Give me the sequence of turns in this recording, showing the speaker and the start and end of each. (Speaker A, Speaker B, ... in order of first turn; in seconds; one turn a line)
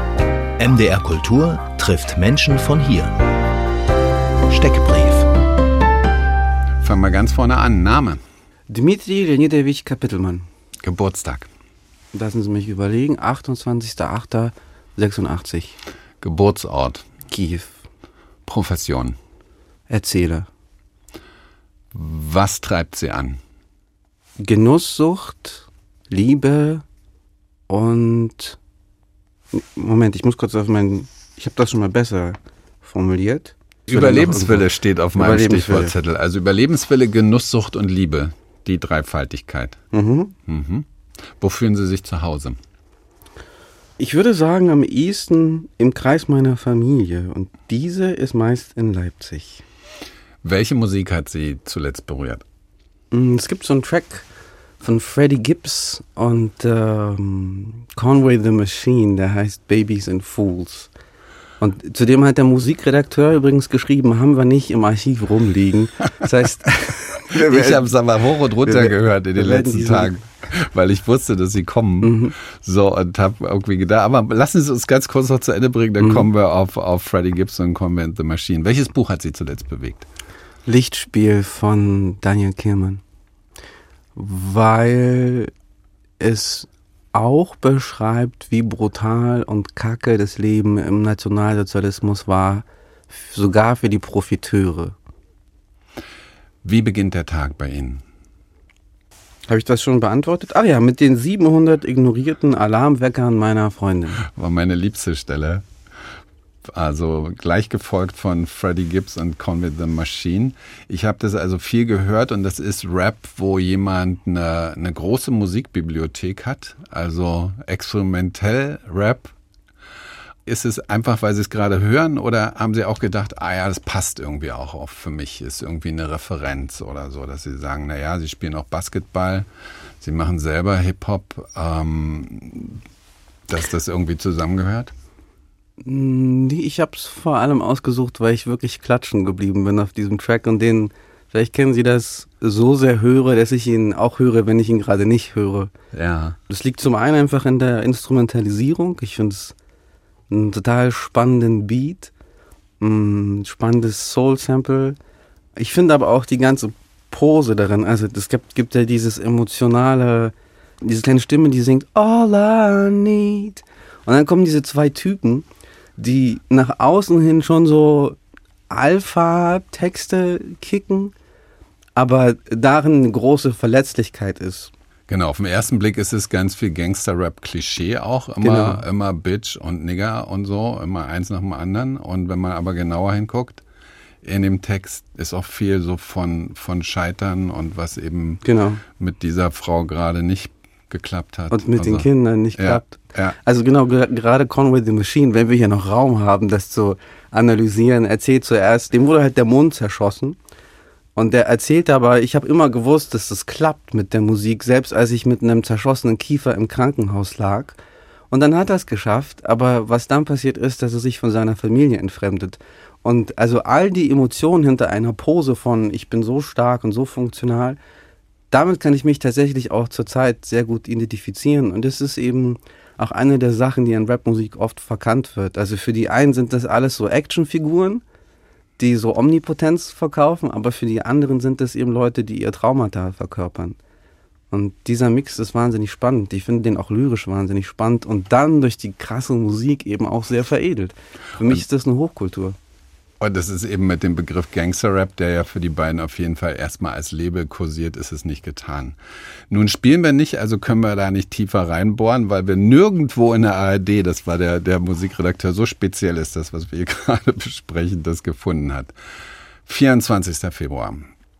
Speaker A: 0.6-3.1
Speaker A: 4.5-5.3
Speaker B: 6.8-8.2
Speaker C: 8.7-10.5
Speaker B: 10.8-11.5
Speaker C: 12.1-15.8
Speaker B: 16.2-17.1
Speaker C: 17.3-17.9
Speaker B: 18.4-19.2
Speaker C: 19.9-20.5
Speaker B: 21.9-23.4
Speaker C: 24.4-26.8
Speaker C: 27.7-28.6
Speaker C: 29.5-36.0
Speaker B: 33.9-39.8
Speaker C: 39.9-40.3
Speaker B: 40.5-40.9
Speaker B: 41.4-42.6
Speaker C: 44.0-49.6
Speaker B: 50.4-52.4
Speaker C: 53.1-54.3
Speaker C: 54.8-60.9
Speaker C: 61.6-67.9
Speaker B: 67.3-80.0
Speaker C: 68.6-70.2
Speaker C: 72.0-72.3
Speaker C: 76.0-76.3
Speaker C: 80.7-83.0
Speaker C: 84.2-85.5
Speaker C: 86.2-95.0
Speaker B: 96.6-98.0
Speaker C: 99.5-104.2
Speaker B: 104.2-105.6
Speaker B: 106.7-119.3
Speaker B: 120.5-129.5
Speaker B: 130.0-132.8
Speaker B: 133.5-134.9
Speaker C: 135.8-145.7
Speaker B: 145.9-146.4
Speaker C: 146.5-149.5
Speaker C: 150.3-152.1
Speaker C: 152.8-155.0
Speaker C: 155.6-165.4
Speaker C: 166.0-168.2
Speaker C: 168.7-171.1
Speaker C: 171.9-174.7
Speaker B: 175.1-183.6
Speaker C: 178.4-178.8
Speaker B: 184.2-193.4
Speaker C: 188.4-188.8
Speaker C: 191.5-200.4
Speaker C: 201.2-207.8
Speaker C: 208.3-217.8
Speaker C: 218.5-228.0
Speaker C: 228.8-233.8
Speaker C: 234.5-242.6
Speaker B: 243.2-249.0
Speaker B: 249.5-258.9
Speaker B: 259.6-261.1